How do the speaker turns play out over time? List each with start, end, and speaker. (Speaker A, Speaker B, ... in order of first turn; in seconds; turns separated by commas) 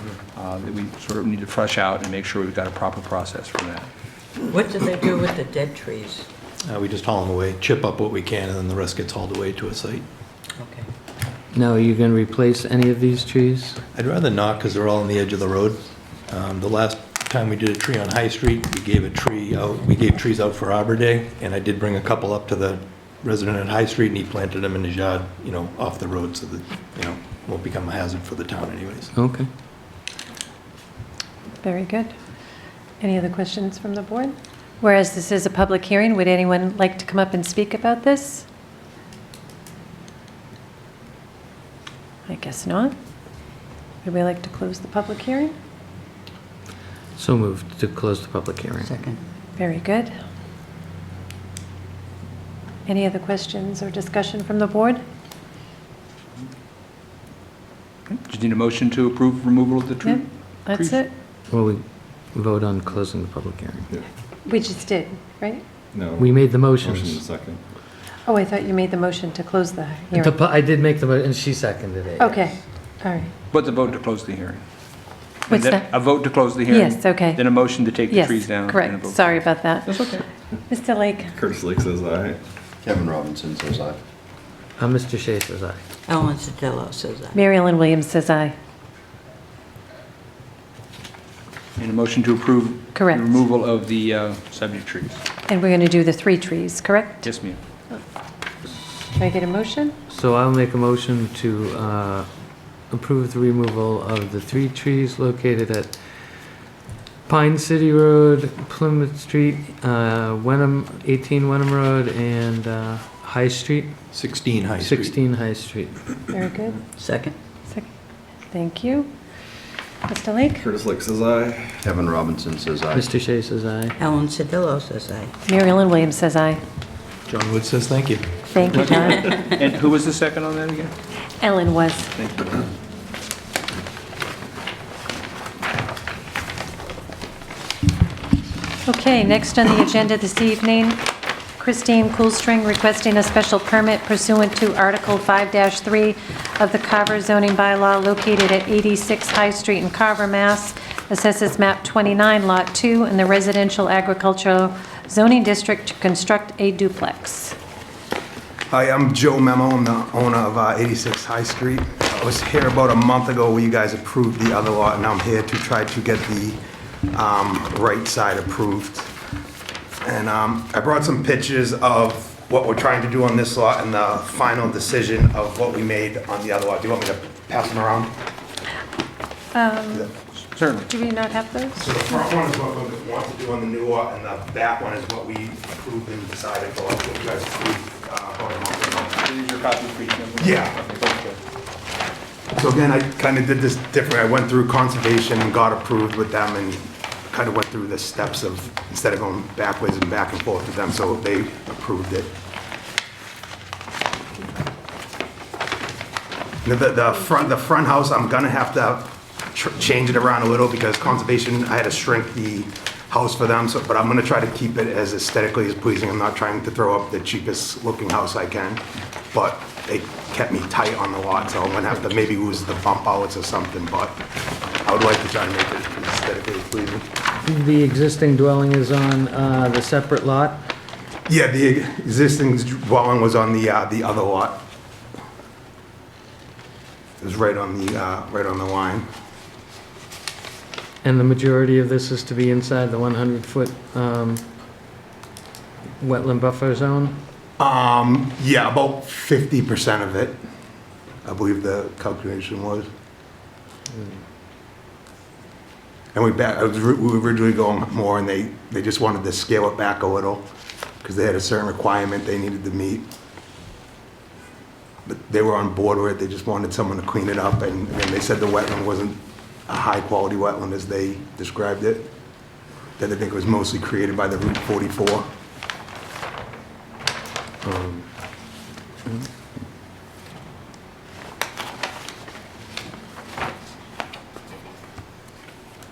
Speaker A: 0.3-3.9, Speaker B: 4.4-6.2, Speaker C: 6.6-10.0, Speaker B: 10.6-10.9, Speaker D: 11.5-13.8, Speaker C: 13.9-29.1, Speaker D: 29.1-29.5, Speaker E: 31.6-32.1, Speaker E: 33.0-38.5, Speaker E: 42.3-42.9, Speaker E: 44.0-45.5, Speaker D: 47.2-48.9, Speaker B: 48.8-49.2, Speaker E: 49.6-50.1, Speaker E: 52.9-55.0, Speaker A: 58.1-61.0, Speaker E: 60.0-61.1, Speaker D: 61.5-63.9, Speaker E: 64.5-65.6, Speaker F: 65.9-67.6, Speaker D: 66.1-67.2, Speaker E: 68.3-70.3, Speaker D: 70.2-72.5, Speaker E: 72.2-73.3, Speaker A: 73.5-74.6, Speaker A: 75.5-80.2, Speaker E: 75.5-75.8, Speaker E: 76.7-77.4, Speaker E: 78.1-80.0, Speaker E: 80.7-81.3, Speaker F: 81.3-82.4, Speaker G: 82.8-84.0, Speaker D: 84.8-85.8, Speaker B: 86.1-87.4, Speaker E: 87.3-88.5, Speaker A: 91.8-95.2, Speaker E: 92.9-93.3, Speaker E: 95.5-97.3, Speaker A: 97.2-97.6, Speaker E: 99.1-99.9, Speaker D: 100.1-102.3, Speaker D: 102.9-106.0, Speaker D: 107.3-113.9, Speaker C: 114.1-115.1, Speaker D: 114.8-116.0, Speaker E: 116.3-116.8, Speaker B: 117.0-117.3, Speaker E: 118.5-119.1, Speaker E: 120.1-120.7, Speaker F: 120.6-122.1, Speaker G: 121.8-123.0, Speaker D: 122.9-124.0, Speaker B: 124.0-125.3, Speaker E: 125.5-126.6, Speaker C: 127.3-128.3, Speaker E: 128.5-129.4, Speaker A: 128.7-130.9, Speaker E: 131.4-132.1, Speaker A: 132.1-132.6, Speaker E: 138.8-141.0, Speaker E: 141.6-157.6, Speaker H: 158.7-169.1, Speaker H: 170.0-178.1, Speaker E: 179.5-180.1, Speaker A: 180.4-180.9, Speaker E: 180.8-182.2, Speaker H: 181.8-189.2, Speaker A: 189.2-191.4, Speaker H: 190.4-190.8, Speaker H: 192.6-202.3, Speaker H: 206.6-224.1, Speaker H: 224.8-227.1, Speaker D: 227.4-230.6, Speaker H: 231.3-234.6, Speaker H: 237.2-239.1, Speaker D: 241.0-244.4, Speaker D: 246.0-247.2, Speaker H: 247.6-250.4, Speaker H: 251.2-252.9, Speaker H: 256.1-260.5, Speaker H: 261.0-263.1, Speaker H: 265.1-272.1, Speaker H: 273.0-275.3, Speaker D: 277.6-278.1